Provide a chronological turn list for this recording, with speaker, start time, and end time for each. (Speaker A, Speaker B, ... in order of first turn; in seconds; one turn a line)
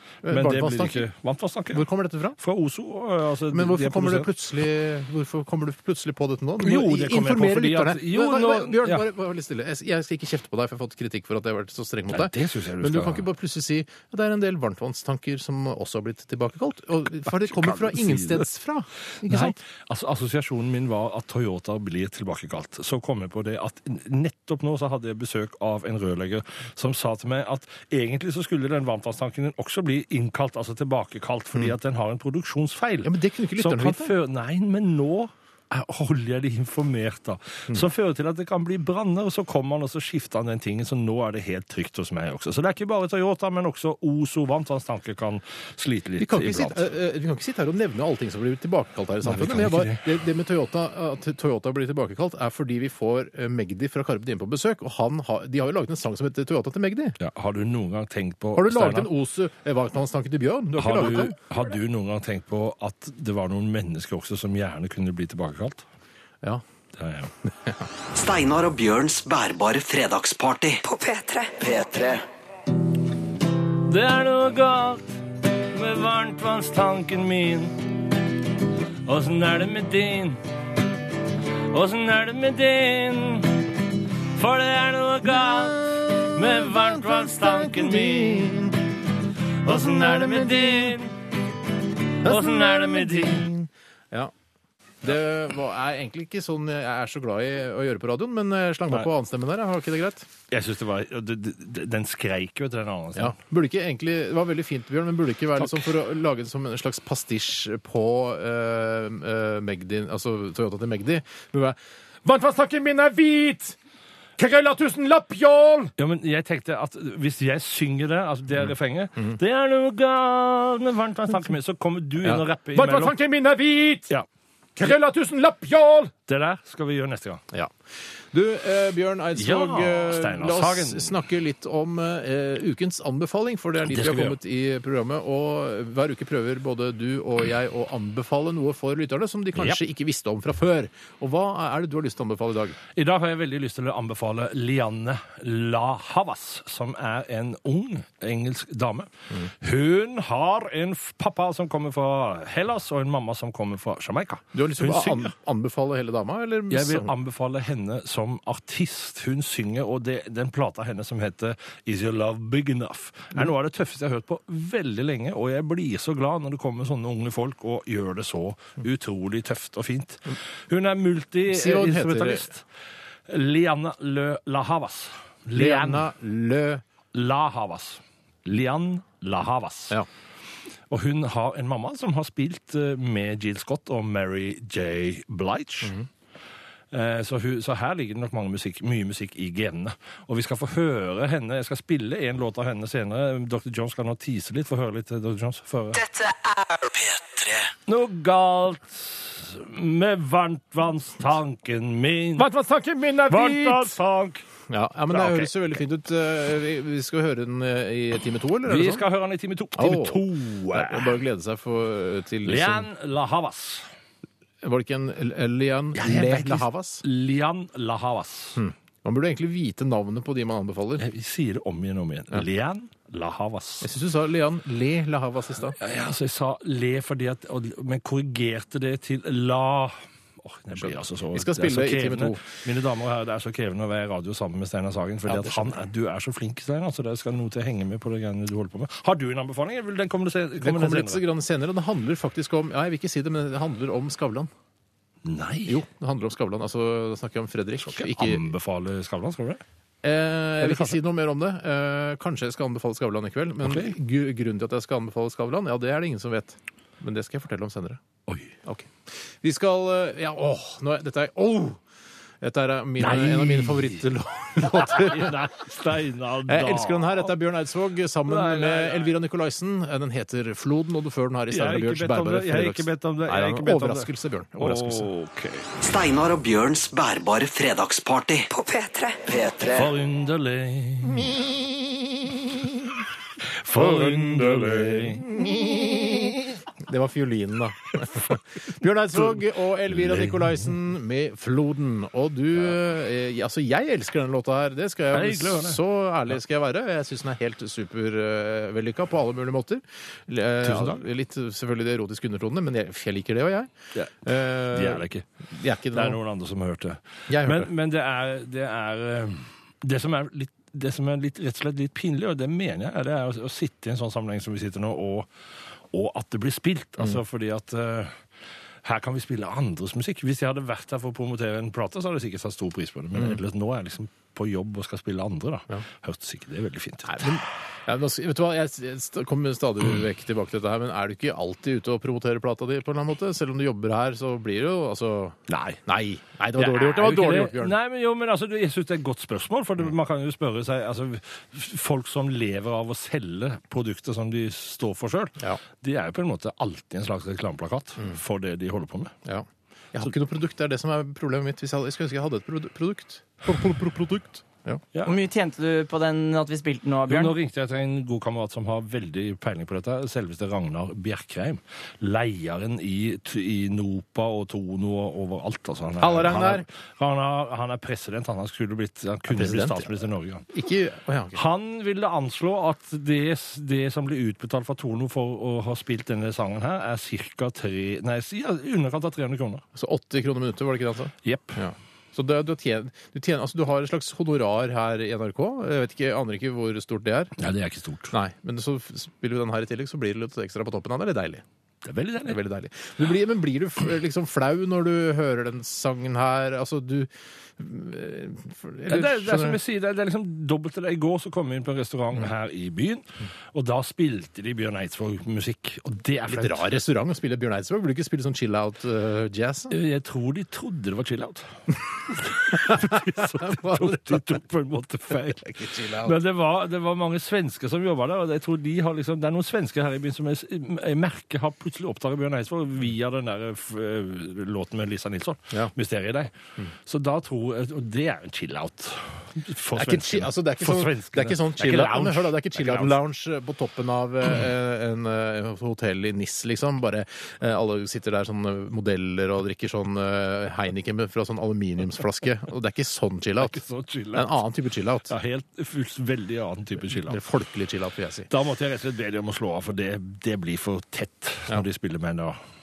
Speaker A: 0.2-1.1
Speaker B: 0.3-1.9
Speaker A: 1.7-2.4
Speaker B: 2.4-4.3
Speaker A: 3.5-19.6
Speaker B: 6.6-9.1
Speaker B: 12.1-13.2
Speaker B: 17.4-18.5
Speaker B: 19.2-46.8
Speaker A: 33.0-34.1
Speaker A: 46.2-57.2
Speaker B: 49.2-50.1
Speaker B: 57.2-59.1
Speaker A: 58.5-61.4
Speaker B: 60.8-65.8
Speaker B: 67.0-67.3
Speaker C: 68.1-70.8
Speaker D: 70.8-71.6
Speaker C: 71.6-72.2
Speaker B: 73.8-78.0
Speaker B: 79.1-80.4
Speaker B: 81.7-88.7
Speaker A: 85.4-88.8
Speaker B: 89.6-91.1
Speaker A: 89.7-91.0
Speaker B: 92.2-93.5
Speaker A: 92.2-94.3
Speaker A: 95.0-100.3
Speaker B: 100.5-103.3
Speaker A: 103.2-111.8
Speaker E: 112.2-113.8
Speaker E: 114.4-115.9
Speaker B: 116.0-123.2
Speaker E: 122.8-124.1
Speaker E: 124.8-126.1
Speaker B: 126.3-127.4
Speaker A: 128.3-142.8
Speaker B: 129.4-131.1
Speaker B: 133.9-134.4
Speaker B: 143.0-149.1
Speaker B: 149.6-155.3
Speaker A: 154.5-157.1
Speaker B: 156.7-172.6
Speaker A: 171.5-172.5
Speaker B: 173.3-176.1
Speaker A: 175.5-176.8
Speaker B: 177.1-180.0
Speaker B: 180.9-185.9
Speaker B: 186.9-196.0
Speaker D: 196.0-197.0
Speaker C: 197.2-197.6
Speaker B: 197.9-202.5
Speaker E: 202.4-203.9
Speaker B: 203.3-204.4
Speaker A: 204.7-209.1
Speaker B: 205.1-205.5
Speaker B: 208.7-211.2
Speaker A: 209.8-212.9
Speaker B: 212.4-213.9
Speaker A: 214.6-217.0
Speaker B: 215.9-218.6
Speaker A: 218.6-221.1
Speaker B: 221.0-223.9
Speaker A: 223.8-225.8
Speaker B: 225.8-241.2
Speaker A: 230.8-232.4
Speaker A: 235.3-235.8
Speaker A: 240.6-244.5
Speaker B: 245.2-245.8
Speaker A: 245.7-248.5
Speaker B: 247.8-249.6
Speaker A: 250.0-258.0
Speaker B: 250.6-250.9
Speaker B: 253.6-253.9
Speaker B: 258.3-258.5
Speaker A: 258.7-261.8
Speaker A: 262.4-265.5
Speaker B: 263.0-264.0
Speaker B: 264.6-267.3
Speaker A: 266.5-275.1
Speaker B: 268.3-269.1
Speaker B: 271.5-275.7
Speaker C: 275.8-278.5
Speaker D: 278.5-279.2
Speaker C: 279.3-279.9
Speaker B: 279.7-281.4
Speaker B: 283.6-285.3
Speaker A: 283.7-303.7
Speaker B: 290.0-290.6
Speaker B: 295.1-295.8
Speaker B: 300.6-301.0
Speaker B: 303.9-305.3
Speaker A: 304.2-306.2
Speaker B: 305.9-315.3
Speaker A: 307.3-307.7
Speaker B: 315.9-318.2
Speaker B: 318.8-327.4
Speaker A: 327.1-337.8
Speaker B: 335.5-335.8
Speaker B: 336.6-349.1
Speaker A: 349.2-354.8
Speaker F: 355.0-357.4
Speaker B: 357.1-370.5
Speaker A: 366.0-366.7
Speaker A: 369.3-369.9
Speaker A: 370.5-371.4
Speaker B: 371.3-379.6
Speaker A: 379.8-387.3
Speaker B: 381.2-381.6
Speaker B: 387.4-388.1
Speaker A: 388.1-391.4
Speaker B: 391.8-392.4
Speaker A: 392.2-399.6
Speaker B: 398.9-406.7
Speaker A: 406.3-409.7
Speaker B: 409.7-411.5
Speaker B: 412.1-426.3
Speaker A: 412.5-414.2
Speaker A: 415.5-416.2
Speaker B: 426.9-433.0
Speaker A: 429.8-443.6
Speaker B: 443.4-444.4
Speaker A: 444.1-445.1
Speaker B: 445.1-447.2
Speaker A: 446.9-448.3
Speaker B: 448.3-452.4